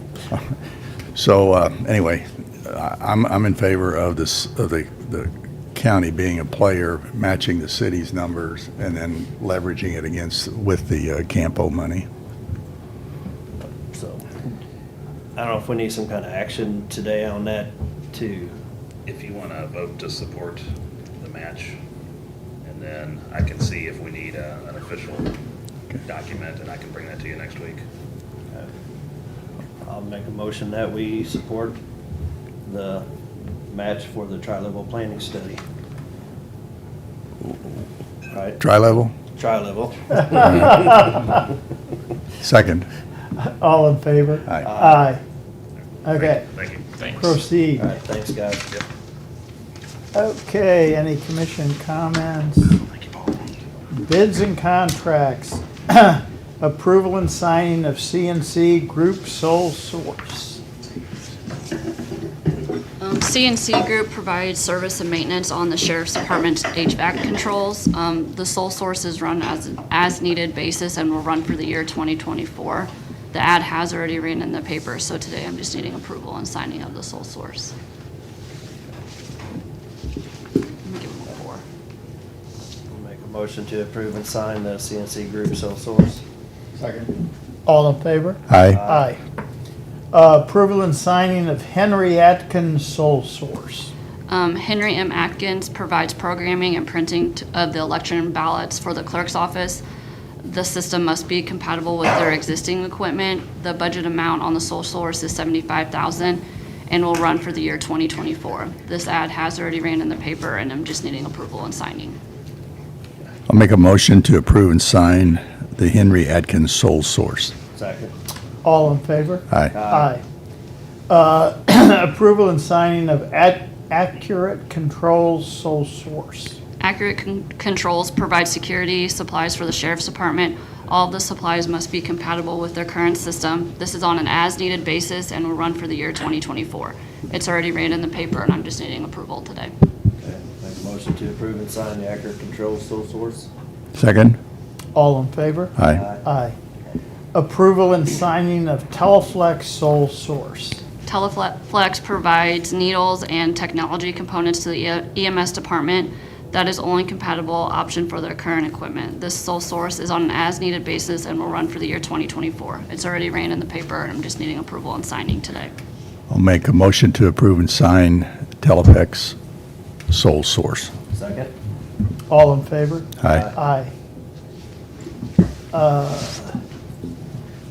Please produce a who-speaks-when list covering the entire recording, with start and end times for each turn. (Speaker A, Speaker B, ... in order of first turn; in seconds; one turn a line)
Speaker A: 1.1-12.1
Speaker B: 13.6-14.2
Speaker B: 15.3-18.5
Speaker C: 19.1-21.8
Speaker C: 22.6-25.3
Speaker C: 26.0-27.8
Speaker B: 29.8-31.8
Speaker B: 32.6-33.0
Speaker B: 33.7-35.6
Speaker B: 38.3-38.6
Speaker A: 38.6-39.1
Speaker B: 39.3-40.8
Speaker D: 40.2-41.3
Speaker A: 42.4-42.9
Speaker D: 43.4-45.2
Speaker B: 44.6-45.0
Speaker D: 46.0-46.5
Speaker C: 46.1-46.9
Speaker D: 47.0-47.9
Speaker B: 47.8-48.6
Speaker D: 50.1-52.7
Speaker C: 52.9-53.4
Speaker D: 53.9-60.6
Speaker E: 63.0-77.7
Speaker E: 80.8-81.6
Speaker B: 82.9-86.2
Speaker A: 86.8-87.1
Speaker D: 87.7-89.2
Speaker A: 88.5-88.8
Speaker B: 88.7-89.1
Speaker D: 90.1-93.9
Speaker E: 94.3-99.8
Speaker E: 100.4-112.2
Speaker A: 113.5-117.5
Speaker B: 117.7-118.1
Speaker D: 118.6-120.2
Speaker A: 119.5-119.8
Speaker B: 119.7-120.1
Speaker D: 121.1-126.6
Speaker E: 126.8-139.7
Speaker B: 140.2-143.5
Speaker A: 143.9-144.4
Speaker D: 144.9-146.5
Speaker A: 145.8-146.0
Speaker B: 145.9-146.2
Speaker D: 147.3-150.8
Speaker E: 151.1-165.7
Speaker A: 166.3-169.3
Speaker A: 170.1-170.9
Speaker B: 171.1-171.5
Speaker D: 172.3-173.9
Speaker A: 173.2-173.4
Speaker D: 175.7-176.5